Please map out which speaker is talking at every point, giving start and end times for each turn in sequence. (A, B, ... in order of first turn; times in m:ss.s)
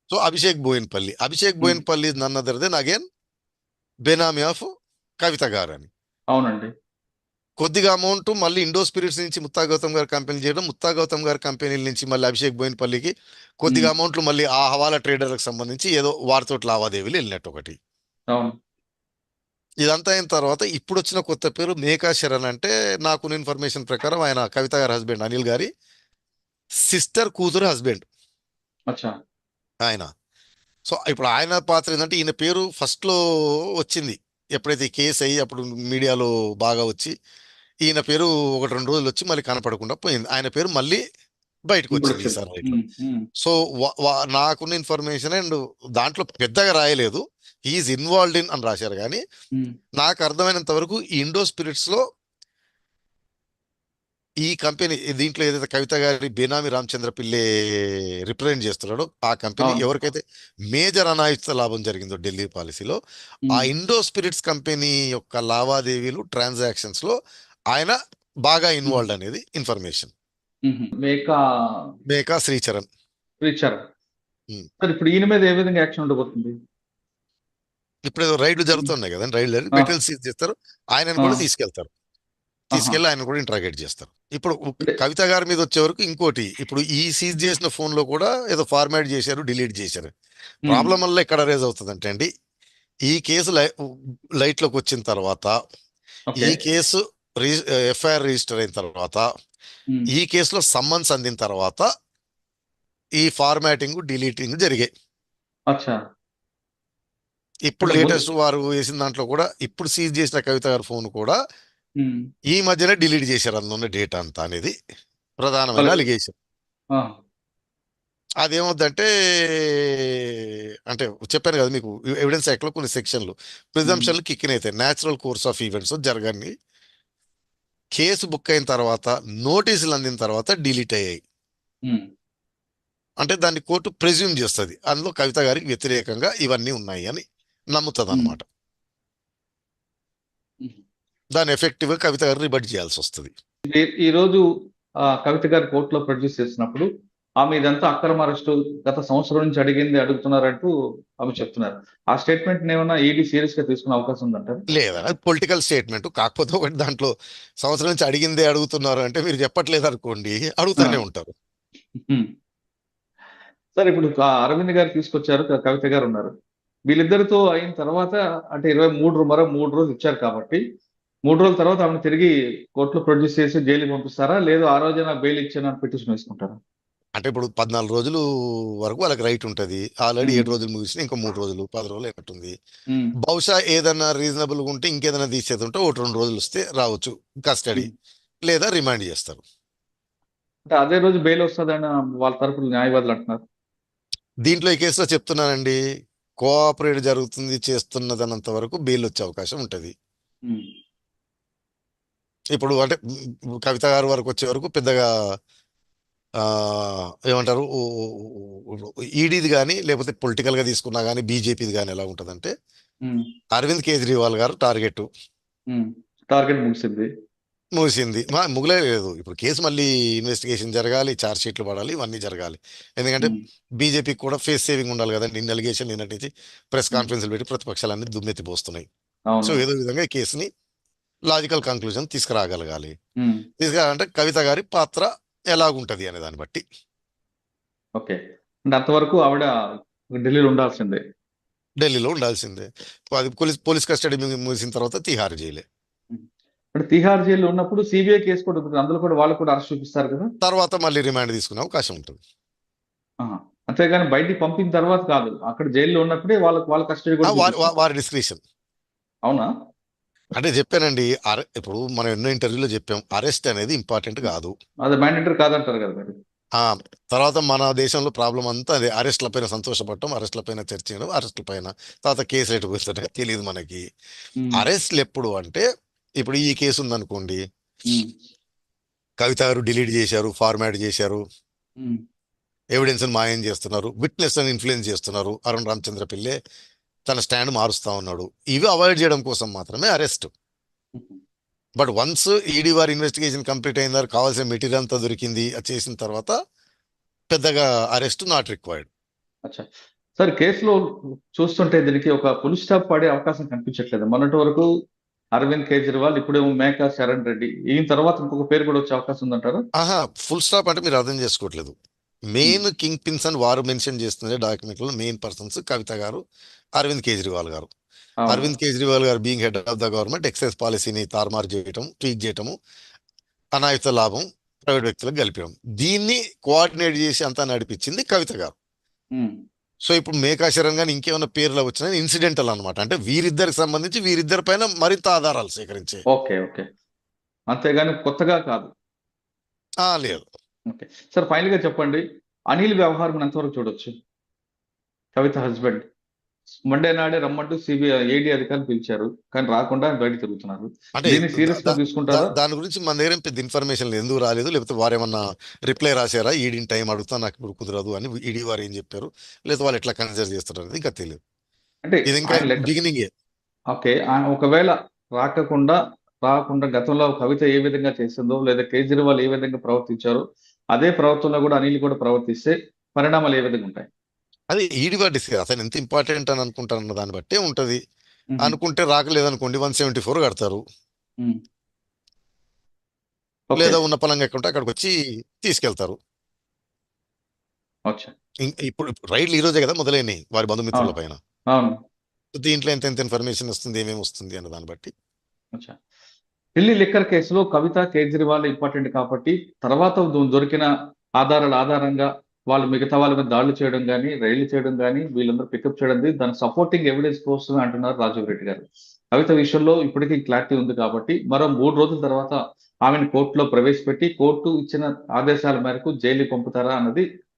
0:00.1-0:03.0 A
0:04.0-0:04.7 A
0:05.2-0:05.9 A
0:06.3-0:06.7 B
0:07.6-0:17.8 A
0:19.8-0:25.7 A
0:26.9-0:28.0 A
0:30.9-0:33.2 A
0:33.8-0:37.1 A
0:37.9-0:41.0 A
0:41.7-0:42.8 A
0:41.9-0:43.2 B
0:43.4-0:49.2 A
0:50.0-0:52.0 A
0:54.4-1:00.2 A
1:00.7-1:03.0 A
1:03.5-1:07.1 A
1:07.7-1:10.1 A
1:10.6-1:11.8 B
1:12.1-1:12.9 A
1:13.4-1:13.8 B
1:14.8-1:16.5 B
1:18.1-1:21.9 A
1:21.2-1:21.4 B
1:22.7-1:23.0 B
1:22.7-1:30.1 A
1:30.7-1:32.3 A
1:33.1-1:35.6 A
1:36.3-1:36.6 B
1:36.4-1:39.2 A
1:40.1-1:41.9 A
1:43.2-1:44.9 A
1:45.7-1:46.0 B
1:47.6-1:51.4 A
1:47.8-1:48.2 B
1:52.5-1:54.7 A
1:55.4-1:56.3 A
1:58.4-2:06.5 A
2:03.8-2:04.1 B
2:08.0-2:11.2 A
2:13.2-2:17.2 A
2:17.7-2:18.4 A
2:18.1-2:18.4 B
2:21.4-2:23.3 A
2:23.6-2:24.4 B
2:25.2-2:26.9 B
2:27.4-2:30.7 B
2:31.2-2:34.6 B
2:34.7-2:41.3 A
2:42.0-2:42.2 B
2:43.8-2:46.3 B
2:46.9-2:50.6 B
2:51.3-2:56.6 B
2:57.2-2:58.2 A
2:58.8-3:02.5 A
3:00.2-3:00.5 B
3:03.2-3:07.9 A
3:08.5-3:09.4 A
3:10.7-3:13.4 B
3:14.4-3:15.8 A
3:16.4-3:19.9 A
3:22.5-3:23.0 A
3:23.6-3:25.1 A
3:26.4-3:32.5 A
3:33.5-3:35.1 A
3:35.7-3:37.1 B
3:37.8-3:48.9 A
3:49.3-3:49.6 B
3:49.4-3:50.5 A
3:51.3-3:52.9 A
3:53.6-3:56.6 A
3:58.7-3:59.5 B
4:00.1-4:01.0 B
4:01.8-4:05.6 A
4:06.8-4:10.3 B
4:10.4-4:12.2 A
4:13.2-4:17.7 B
4:17.2-4:18.4 A
4:20.4-4:24.5 A
4:24.8-4:26.1 B
4:26.6-4:33.8 A
4:34.4-4:34.6 B
4:34.6-4:35.6 A
4:36.2-4:37.4 A
4:39.2-4:41.2 A
4:42.7-4:46.4 A
4:47.1-4:50.3 A
4:51.0-4:51.2 B
4:51.8-4:56.3 A
4:57.3-4:58.9 A
5:00.2-5:00.8 B
5:01.3-5:04.7 B
5:05.4-5:09.6 B
5:09.8-5:11.8 A
5:12.3-5:16.2 A
5:16.8-5:17.7 A
5:18.2-5:18.5 B
5:18.3-5:22.5 A
5:23.6-5:28.5 A
5:29.8-5:36.0 A
5:36.1-5:36.6 B
5:37.5-5:38.7 B
5:39.8-5:40.2 A
5:40.7-5:43.9 B
5:45.2-5:45.8 B
5:46.7-5:52.3 B
5:51.0-6:01.2 A
6:01.8-6:02.7 B
6:02.1-6:03.1 A
6:03.7-6:10.2 B
6:10.7-6:13.9 B
6:14.5-6:17.8 A
6:18.4-6:20.6 A
6:23.5-6:23.8 B
6:23.5-6:26.0 A
6:28.4-6:31.2 A
6:32.3-6:34.9 A
6:36.6-6:40.7 B
6:41.2-6:48.6 B
6:49.1-6:57.0 B